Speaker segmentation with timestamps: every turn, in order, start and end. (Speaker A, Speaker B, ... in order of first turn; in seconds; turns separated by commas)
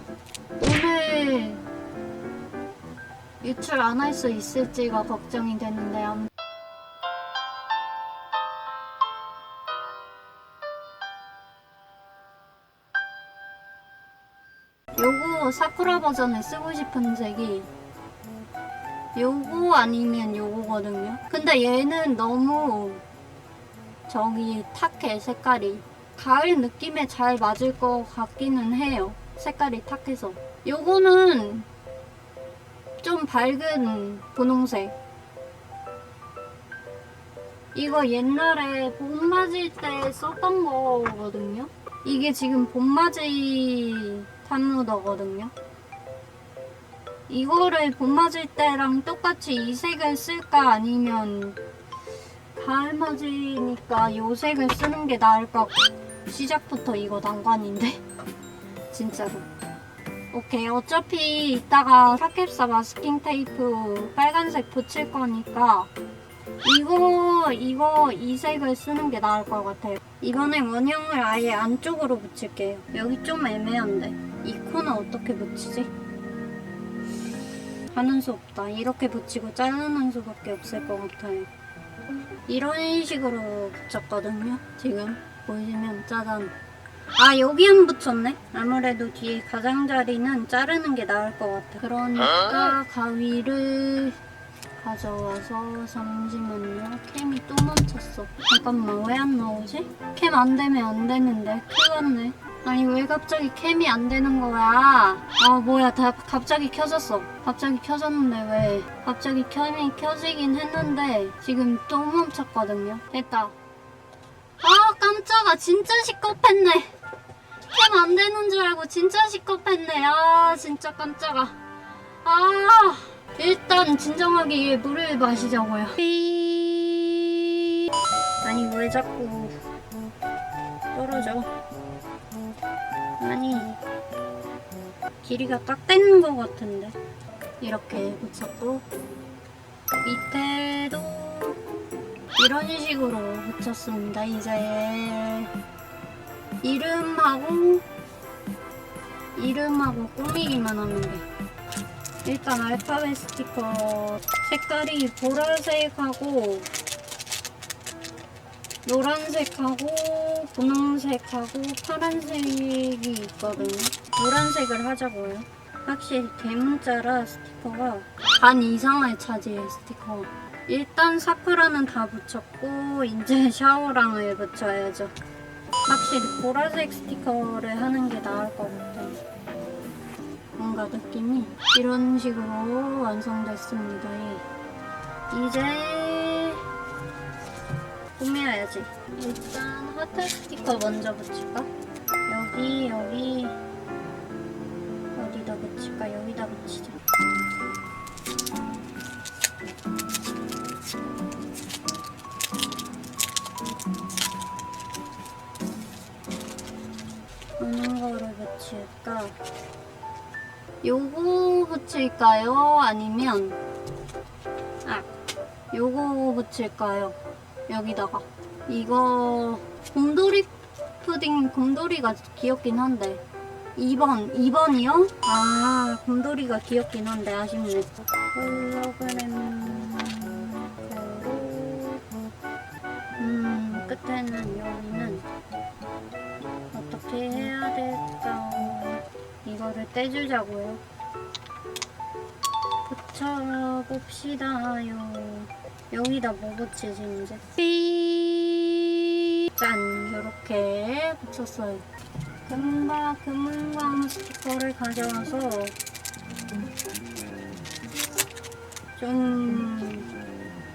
Speaker A: 0.6-1.6, Speaker A: 3.4-6.3, Speaker A: 15.0-17.7, Speaker A: 19.1-23.0, Speaker A: 24.1-31.7, Speaker A: 33.0-34.9, Speaker A: 37.7-45.5, Speaker A: 47.3-51.6, Speaker A: 52.5-58.0, Speaker A: 58.9-59.5, Speaker A: 60.3-65.9, Speaker A: 66.6-75.9, Speaker A: 77.9-81.5, Speaker A: 82.5-86.5, Speaker A: 87.2-94.2, Speaker A: 94.8-113.5, Speaker A: 114.6-116.9, Speaker A: 117.7-121.6, Speaker A: 122.2-127.5, Speaker A: 128.4-129.5, Speaker A: 130.9-131.5, Speaker A: 133.2-133.8, Speaker A: 135.2-136.9, Speaker A: 137.6-138.8, Speaker A: 140.0-141.6, Speaker A: 142.4-145.5, Speaker A: 146.6-147.8, Speaker A: 149.3-151.2, Speaker A: 152.2-156.7, Speaker A: 158.8-175.1, Speaker A: 175.9-179.2, Speaker A: 180.6-184.4, Speaker A: 185.3-186.6, Speaker A: 188.2-191.7, Speaker A: 192.3-193.6, Speaker A: 195.2-197.0, Speaker A: 207.6-209.3, Speaker A: 210.8-213.6, Speaker A: 215.7-223.2, Speaker A: 223.8-232.0, Speaker A: 233.2-235.2, Speaker A: 236.7-240.8, Speaker A: 242.9-248.9, Speaker A: 249.5-251.8, Speaker A: 252.4-255.7, Speaker A: 258.9-260.1